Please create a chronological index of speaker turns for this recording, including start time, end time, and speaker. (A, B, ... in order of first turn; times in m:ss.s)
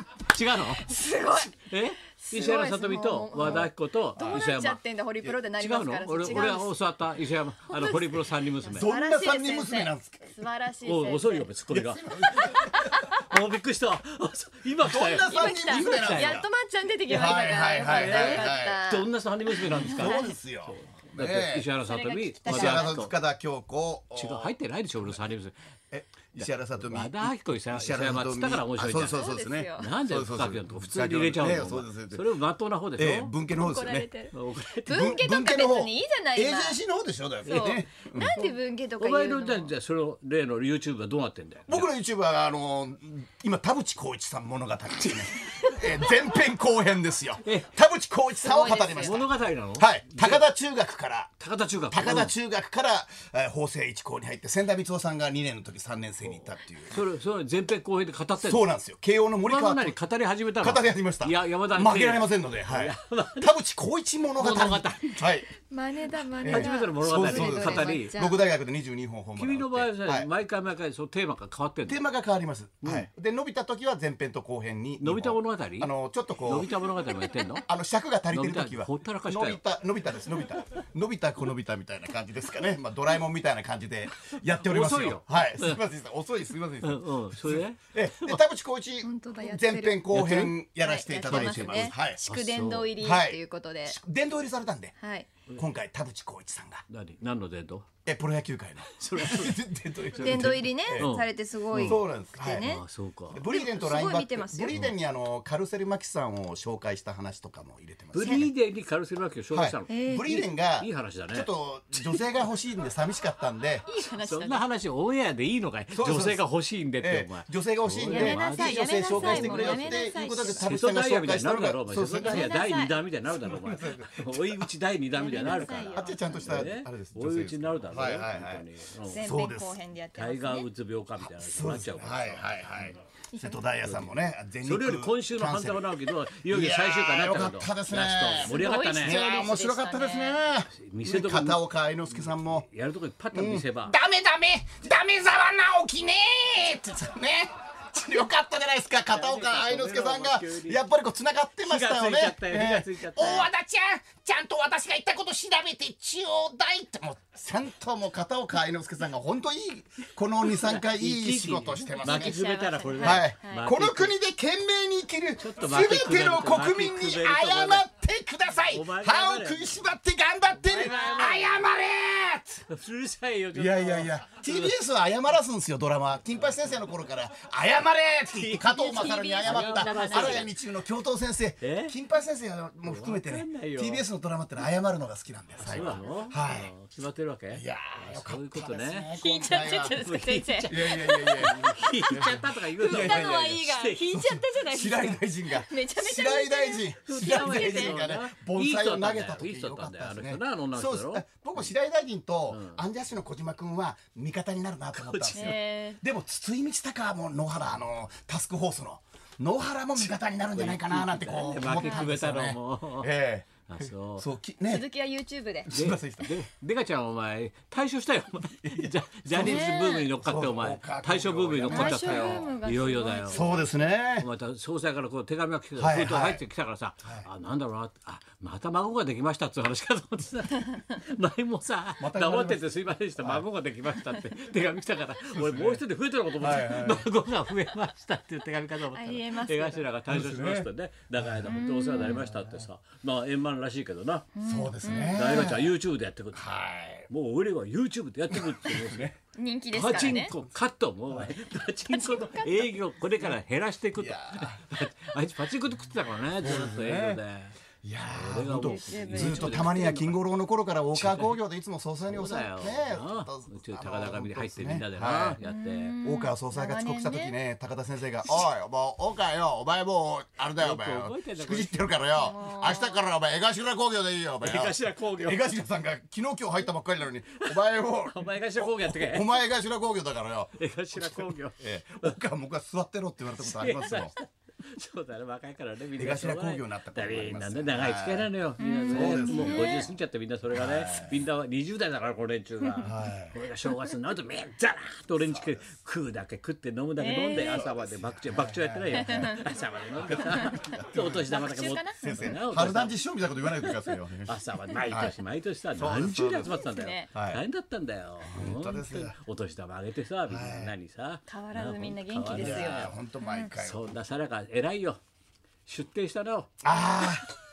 0:00.3-0:01.0 A
0:00.8-0:01.5 B
0:01.5-0:04.8 A
0:02.2-0:06.8 B
0:03.4-0:04.5 C
0:05.5-0:08.9 A
0:07.7-0:11.5 B
0:08.7-0:10.3 C
0:10.8-0:16.4 A
0:11.7-0:12.9 C
0:12.2-0:13.2 B
0:14.8-0:16.4 C
0:15.2-0:20.3 B
0:17.1-0:18.8 C
0:17.1-0:23.1 A
0:19.7-0:21.7 C
0:21.8-0:23.1 B
0:22.4-0:24.5 C
0:24.1-0:25.5 A
0:25.9-0:32.3 C
0:26.4-0:29.2 A
0:29.1-0:29.9 B
0:29.8-0:33.3 A
0:33.0-0:34.1 C
0:33.5-0:34.3 B
0:34.3-0:35.1 A
0:34.8-0:36.8 B
0:34.9-0:38.4 C
0:37.4-0:39.7 B
0:38.4-0:41.9 A
0:41.7-0:51.3 C
0:47.4-0:47.7 A
0:48.4-0:49.2 B
0:48.9-0:50.4 A
0:51.4-0:52.3 A
0:51.9-0:57.0 C
0:56.2-0:58.7 A
0:58.4-1:00.0 C
0:59.4-1:03.5 A
1:00.6-1:05.5 C
1:04.4-1:05.2 A
1:05.6-1:08.4 B
1:06.4-1:10.3 C
1:06.5-1:08.1 A
1:09.4-1:12.0 A
1:11.8-1:16.7 C
1:12.8-1:13.1 A
1:15.0-1:15.9 A
1:16.5-1:17.6 A
1:17.6-1:32.2 C
1:18.3-1:19.6 A
1:24.6-1:25.8 A
1:26.8-1:28.4 A
1:29.0-1:30.0 B
1:30.1-1:30.5 A
1:30.8-1:34.0 B
1:31.3-1:32.9 A
1:33.0-1:35.0 C
1:35.0-1:35.3 B
1:35.5-1:36.8 C
1:36.9-1:37.8 A
1:38.0-1:41.1 C
1:38.9-1:39.6 A
1:40.2-1:42.8 B
1:40.2-1:42.0 A
1:41.7-1:42.7 C
1:42.6-1:43.4 A
1:43.3-1:48.5 C
1:43.5-1:44.8 B
1:48.1-1:50.0 A
1:49.5-1:53.8 C
1:49.9-1:50.5 B
1:50.8-1:51.5 A
1:53.8-1:54.6 B
1:54.2-2:09.2 A
1:55.9-1:56.4 C
1:57.0-2:02.6 C
1:58.0-2:00.7 B
2:02.2-2:03.0 B
2:03.4-2:04.7 C
2:05.1-2:06.5 B
2:05.3-2:08.6 C
2:09.0-2:10.7 B
2:09.2-2:09.8 C
2:10.1-2:12.9 A
2:11.2-2:22.7 C
2:13.3-2:13.6 B
2:13.8-2:19.2 A
2:18.4-2:20.4 B
2:20.7-2:24.0 A
2:23.3-2:42.4 C
2:29.1-2:30.8 A
2:31.6-2:33.5 A
2:40.4-2:44.1 A
2:42.0-2:43.7 B
2:43.0-2:52.6 C
2:45.4-2:47.8 A
2:48.7-2:49.8 A
2:50.6-2:51.7 A
2:52.7-2:54.7 A
2:53.5-3:06.7 C
2:56.3-2:56.7 A
2:58.3-3:00.5 A
2:58.8-3:00.5 B
3:01.6-3:01.9 A
3:02.8-3:04.0 A
3:05.6-3:09.1 A
3:07.5-3:10.0 C
3:09.2-3:12.3 B
3:09.8-3:14.0 A
3:10.7-3:34.8 C
3:12.8-3:18.0 B
3:17.0-3:21.7 A
3:22.5-3:22.8 A
3:24.9-3:25.6 A
3:25.3-3:26.0 B
3:30.0-3:33.1 A
3:31.8-3:32.1 B
3:33.7-3:34.2 A
3:34.7-3:35.7 B
3:35.7-3:36.4 C
3:35.7-3:43.4 A
3:38.6-3:42.5 C
3:39.4-3:40.0 B
3:41.7-3:43.8 B
3:43.3-3:44.3 C
3:44.2-4:04.3 A
3:45.8-3:46.4 C
3:52.0-3:52.6 C
3:53.2-3:53.4 C
3:55.3-3:55.8 C
3:56.4-3:57.1 C
3:58.9-3:59.8 B
4:00.1-4:02.7 C
4:01.5-4:02.2 B
4:04.3-4:05.5 B
4:04.4-4:05.7 C
4:05.0-4:06.4 A
4:06.3-4:07.1 C
4:07.1-4:09.1 A
4:08.3-4:09.2 C
4:09.4-4:10.3 B
4:09.7-4:17.6 A
4:11.1-4:11.4 C
4:11.9-4:12.7 B
4:14.0-4:14.9 C
4:16.4-4:17.2 C
4:17.8-4:25.4 C
4:18.1-4:20.2 A
4:18.6-4:19.8 B
4:20.9-4:21.4 A
4:22.1-4:25.9 A
4:25.4-4:27.4 B
4:26.0-4:44.1 C
4:30.6-4:32.1 A
4:32.1-4:33.0 B
4:34.4-4:35.5 A
4:37.4-4:39.3 A
4:40.6-4:42.2 A
4:43.4-5:03.0 A
4:46.0-4:48.3 C
4:48.6-4:49.9 B
4:48.9-4:49.8 C
4:50.5-4:51.2 C
4:52.8-4:53.3 C
4:55.2-4:55.6 C
4:57.0-4:57.7 B
4:57.3-4:59.4 C
4:58.9-4:59.4 B
4:59.9-5:05.1 C
5:00.3-5:02.1 B
5:04.3-5:13.0 A
5:05.7-5:07.4 C
5:06.4-5:07.1 B
5:08.2-5:09.1 C
5:10.3-5:10.7 C
5:11.3-5:13.5 B
5:12.3-5:13.9 C
5:13.6-5:15.0 A
5:15.6-5:16.5 A
5:16.6-5:17.3 C